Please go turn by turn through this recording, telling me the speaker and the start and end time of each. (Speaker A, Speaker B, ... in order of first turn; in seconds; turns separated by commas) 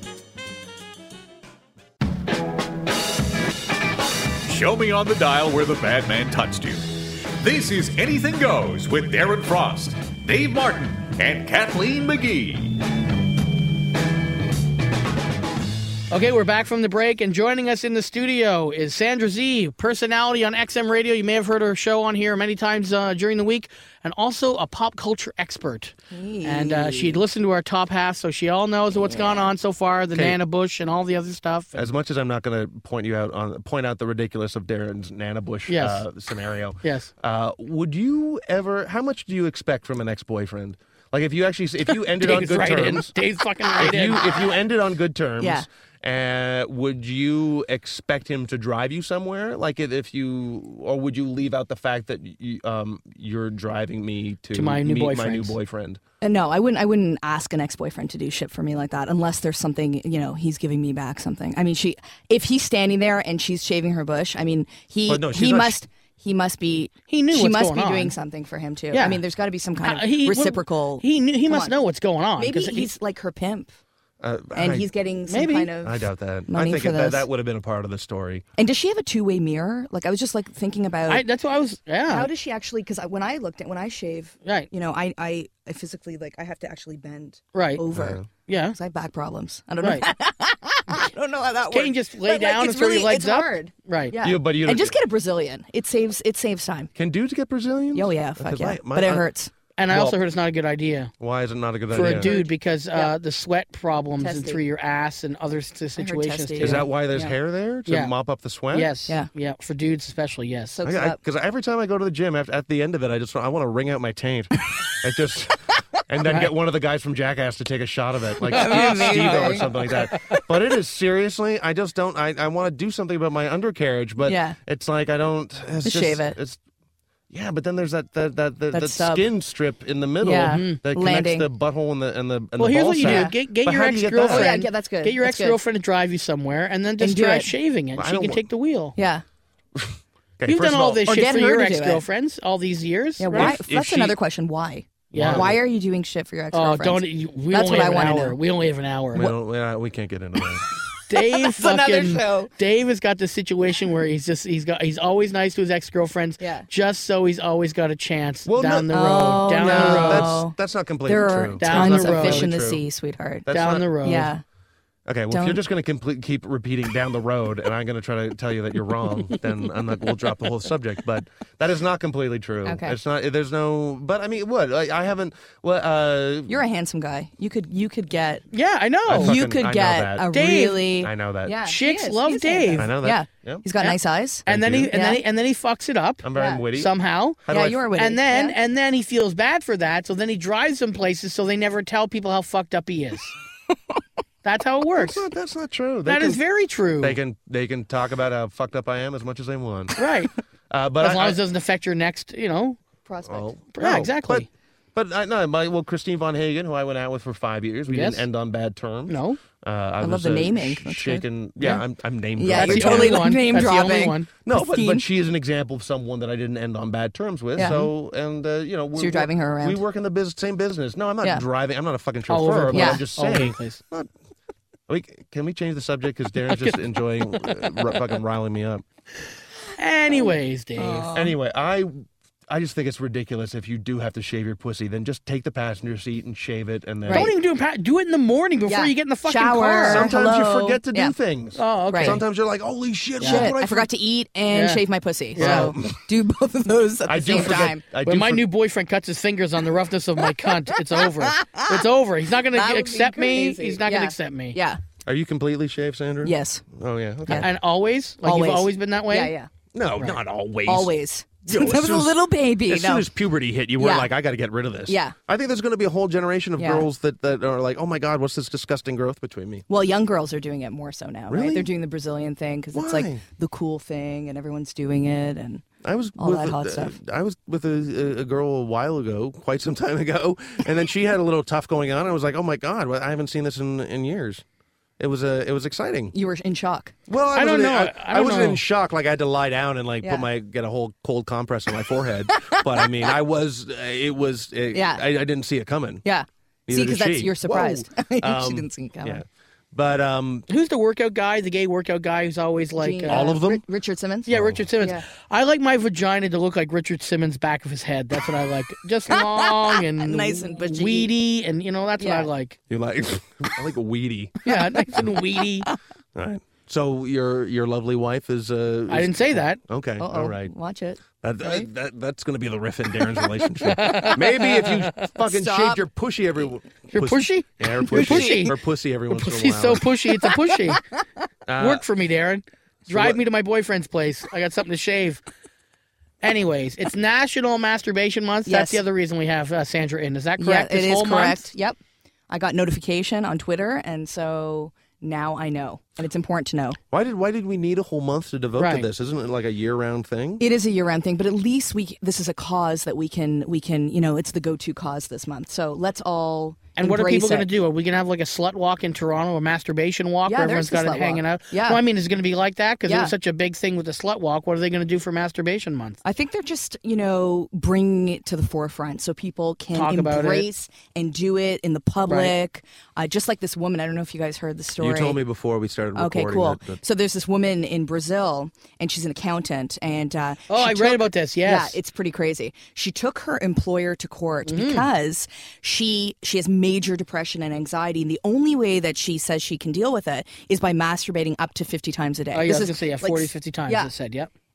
Speaker A: 4.4-12.8, Speaker B: 16.1-25.9, Speaker C: 26.1-27.2, Speaker B: 26.4-31.9, Speaker C: 28.9-29.5, Speaker D: 31.8-43.1, Speaker B: 35.7-36.0, Speaker B: 36.8-37.1, Speaker B: 42.2-44.2, Speaker D: 43.8-56.0, Speaker C: 45.4-45.6, Speaker B: 54.5-55.5, Speaker C: 56.2-71.8, Speaker D: 65.1-65.8, Speaker B: 67.1-68.1, Speaker B: 68.9-69.2, Speaker B: 69.8-72.9, Speaker C: 72.4-73.7, Speaker D: 74.2-74.9, Speaker C: 74.5-77.3, Speaker B: 75.3-75.7, Speaker D: 75.8-78.4, Speaker C: 78.6-81.2, Speaker B: 81.1-82.3, Speaker C: 82.1-96.9, Speaker B: 87.5-87.8, Speaker D: 87.9-88.2, Speaker B: 88.5-88.8, Speaker B: 89.8-90.1, Speaker B: 91.7-94.1, Speaker D: 94.2-95.0, Speaker D: 97.0-99.3, Speaker C: 97.9-99.5, Speaker B: 99.8-101.1, Speaker D: 99.9-100.2, Speaker D: 101.2-102.3, Speaker B: 101.9-107.3, Speaker C: 102.0-103.1, Speaker C: 104.2-104.6, Speaker C: 106.0-106.8, Speaker D: 106.6-108.9, Speaker B: 107.9-108.1, Speaker B: 108.7-110.8, Speaker C: 110.8-111.2, Speaker D: 110.8-126.6, Speaker C: 118.5-119.7, Speaker B: 118.6-119.7, Speaker C: 124.2-124.6, Speaker C: 125.8-126.4, Speaker D: 127.3-134.5, Speaker C: 128.7-129.3, Speaker C: 130.2-131.5, Speaker B: 130.2-130.8, Speaker B: 132.6-138.9, Speaker C: 133.0-133.3, Speaker C: 134.2-135.6, Speaker C: 137.0-137.5, Speaker D: 138.0-138.4, Speaker C: 139.0-139.2, Speaker D: 139.8-141.1, Speaker B: 140.5-143.6, Speaker C: 141.1-142.0, Speaker C: 143.2-148.3, Speaker D: 143.3-144.2, Speaker B: 145.1-145.5, Speaker D: 145.1-145.6, Speaker B: 146.5-149.3, Speaker D: 149.1-150.7, Speaker B: 151.1-160.4, Speaker C: 151.1-152.5, Speaker C: 156.4-156.7, Speaker D: 158.5-162.8, Speaker C: 158.9-160.6, Speaker C: 161.1-163.5, Speaker B: 161.6-162.5, Speaker D: 163.5-163.8, Speaker B: 163.5-164.3, Speaker C: 164.0-164.4, Speaker D: 165.1-176.6, Speaker C: 165.3-165.6, Speaker C: 172.6-173.0, Speaker C: 176.5-178.5, Speaker B: 178.5-179.3, Speaker D: 179.1-180.3, Speaker C: 179.1-185.2, Speaker B: 180.3-180.8, Speaker D: 181.0-181.5, Speaker B: 181.6-182.9, Speaker D: 182.8-183.6, Speaker B: 183.8-187.4, Speaker D: 184.5-184.9, Speaker D: 186.2-186.9, Speaker C: 186.4-186.6, Speaker D: 187.4-187.8, Speaker C: 187.5-188.6, Speaker B: 187.9-193.3, Speaker B: 194.4-195.2, Speaker D: 195.0-196.4, Speaker B: 196.1-197.2, Speaker D: 197.0-199.9, Speaker B: 200.0-200.3, Speaker D: 200.7-201.4, Speaker B: 201.0-202.8, Speaker C: 203.1-203.5, Speaker D: 203.2-213.7, Speaker B: 203.8-204.5, Speaker B: 207.9-208.2, Speaker B: 209.1-209.4, Speaker C: 210.0-211.3, Speaker C: 212.4-215.0, Speaker B: 212.5-214.3, Speaker D: 214.5-224.1, Speaker C: 217.6-217.9, Speaker C: 219.0-219.8, Speaker B: 222.3-223.8, Speaker C: 222.7-223.0, Speaker D: 224.9-228.8, Speaker B: 226.5-226.8, Speaker B: 229.8-231.1, Speaker C: 230.8-231.3, Speaker D: 231.1-237.3, Speaker C: 237.1-237.3, Speaker B: 237.1-240.1, Speaker C: 238.7-241.1, Speaker D: 239.8-243.9, Speaker B: 241.6-242.2, Speaker C: 241.9-242.2, Speaker B: 243.2-243.5, Speaker C: 243.2-247.8, Speaker B: 244.5-244.8, Speaker B: 245.3-245.7, Speaker D: 245.3-245.9, Speaker D: 247.1-248.5, Speaker B: 248.0-254.6, Speaker C: 251.3-251.8, Speaker C: 252.4-254.8, Speaker D: 255.0-257.5, Speaker C: 256.2-256.6, Speaker B: 257.3-259.3, Speaker C: 258.2-259.5, Speaker D: 259.7-260.9, Speaker C: 260.7-263.1, Speaker D: 261.5-262.2, Speaker D: 262.7-269.7, Speaker C: 263.8-264.1, Speaker C: 264.9-265.2, Speaker C: 266.6-266.9, Speaker C: 269.7-275.6, Speaker D: 271.3-271.7, Speaker D: 272.7-273.2, Speaker D: 275.8-284.4, Speaker C: 276.2-277.0, Speaker D: 285.0-286.1, Speaker C: 286.1-286.9, Speaker D: 287.1-296.0, Speaker B: 287.3-288.6, Speaker C: 290.0-290.3, Speaker C: 294.7-295.0, Speaker C: 296.0-299.2, Speaker D: 296.7-300.5, Speaker B: 300.5-303.3, Speaker C: 302.8-305.0, Speaker D: 303.1-303.6, Speaker B: 304.2-312.6, Speaker D: 304.3-304.6, Speaker C: 309.1-311.1, Speaker C: 312.0-312.3, Speaker D: 312.7-314.4, Speaker B: 314.4-315.7, Speaker D: 316.1-320.5, Speaker B: 318.9-319.6, Speaker C: 320.0-321.7, Speaker D: 321.2-329.8, Speaker B: 323.8-324.2, Speaker C: 325.0-325.8, Speaker B: 326.9-328.5, Speaker C: 327.9-328.5, Speaker B: 329.1-330.8, Speaker D: 331.5-331.8, Speaker B: 331.6-335.2, Speaker D: 332.9-333.2, Speaker B: 336.2-341.5, Speaker C: 338.5-338.8, Speaker C: 340.4-341.8, Speaker C: 342.3-346.8, Speaker D: 346.9-350.4, Speaker B: 348.6-348.9, Speaker C: 350.4-357.5, Speaker B: 356.8-366.0, Speaker C: 360.2-361.8, Speaker C: 362.9-363.1, Speaker C: 366.0-375.2, Speaker B: 369.7-370.5, Speaker B: 372.1-372.3, Speaker D: 374.8-376.8, Speaker C: 376.0-393.9, Speaker B: 380.5-381.8, Speaker B: 384.5-384.9, Speaker B: 392.3-394.3